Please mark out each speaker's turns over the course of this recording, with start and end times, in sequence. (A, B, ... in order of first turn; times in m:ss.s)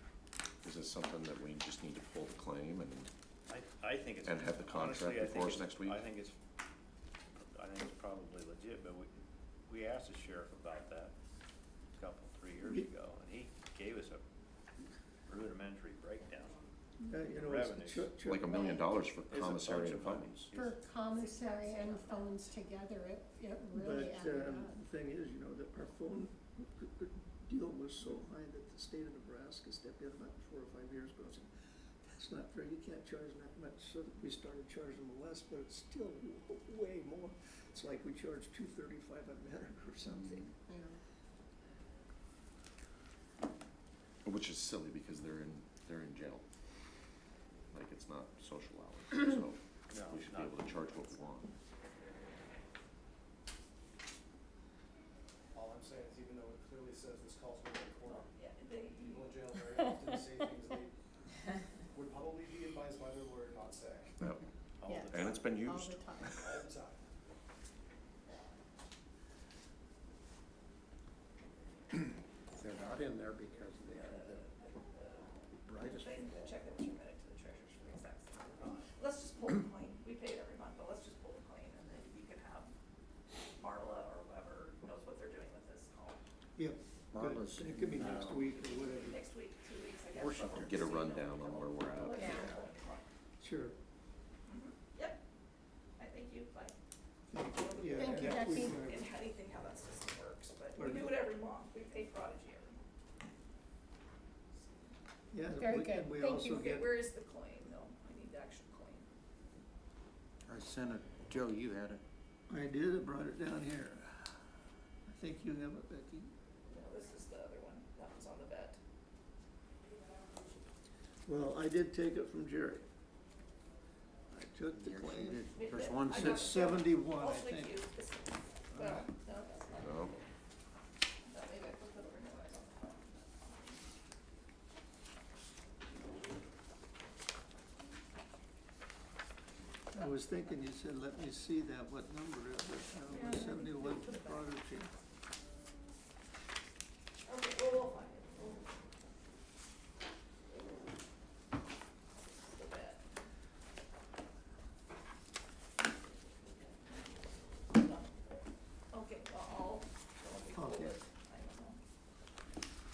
0:00.6-0:03.1 A
0:03.5-0:06.4 B
0:04.2-0:06.1 A
0:07.4-0:09.1 B
0:09.7-0:11.1 B
0:11.9-0:14.2 B
0:15.3-0:16.6 B
0:17.0-0:18.8 C
0:17.4-0:18.1 B
0:18.2-0:20.5 A
0:19.3-0:20.8 B
0:20.5-0:24.8 D
0:21.2-0:22.4 E
0:23.8-0:31.5 C
0:32.0-0:40.5 C
0:40.7-0:41.0 D
0:44.2-0:46.4 A
0:47.7-0:51.5 A
0:49.9-0:50.9 B
0:55.5-0:58.3 F
0:58.0-0:59.6 E
0:59.1-1:00.9 F
1:01.9-1:04.1 F
1:04.8-1:05.5 B
1:04.9-1:06.4 D
1:05.1-1:06.6 A
1:06.4-1:07.0 F
1:12.9-1:13.2 G
1:13.9-1:22.7 E
1:23.6-1:26.2 E
1:26.6-1:29.2 C
1:27.1-1:28.4 G
1:28.2-1:33.1 E
1:30.2-1:30.7 G
1:30.4-1:32.5 A
1:32.1-1:32.5 D
1:33.4-1:33.8 C
1:34.5-1:35.2 E
1:36.0-1:36.8 E
1:37.3-1:39.0 C
1:37.5-1:42.8 E
1:37.9-1:38.7 D
1:40.8-1:41.1 C
1:45.3-1:46.9 C
1:45.6-1:46.7 D
1:46.6-1:49.1 E
1:50.5-1:52.0 G
1:52.5-1:54.4 C
1:55.1-1:56.3 C
1:56.7-1:58.8 E
2:01.3-2:02.9 C
2:04.3-2:05.4 C
2:04.7-2:06.5 G
2:05.5-2:10.2 E
2:06.1-2:07.8 C
2:08.7-2:09.1 C
2:09.8-2:10.1 A
2:11.2-2:13.8 E
2:19.9-2:24.9 C
2:23.1-2:24.5 E
2:27.3-2:28.7 E
2:32.2-2:33.0 E
2:37.7-2:38.1 E
2:38.9-2:41.8 E
2:40.5-2:41.0 C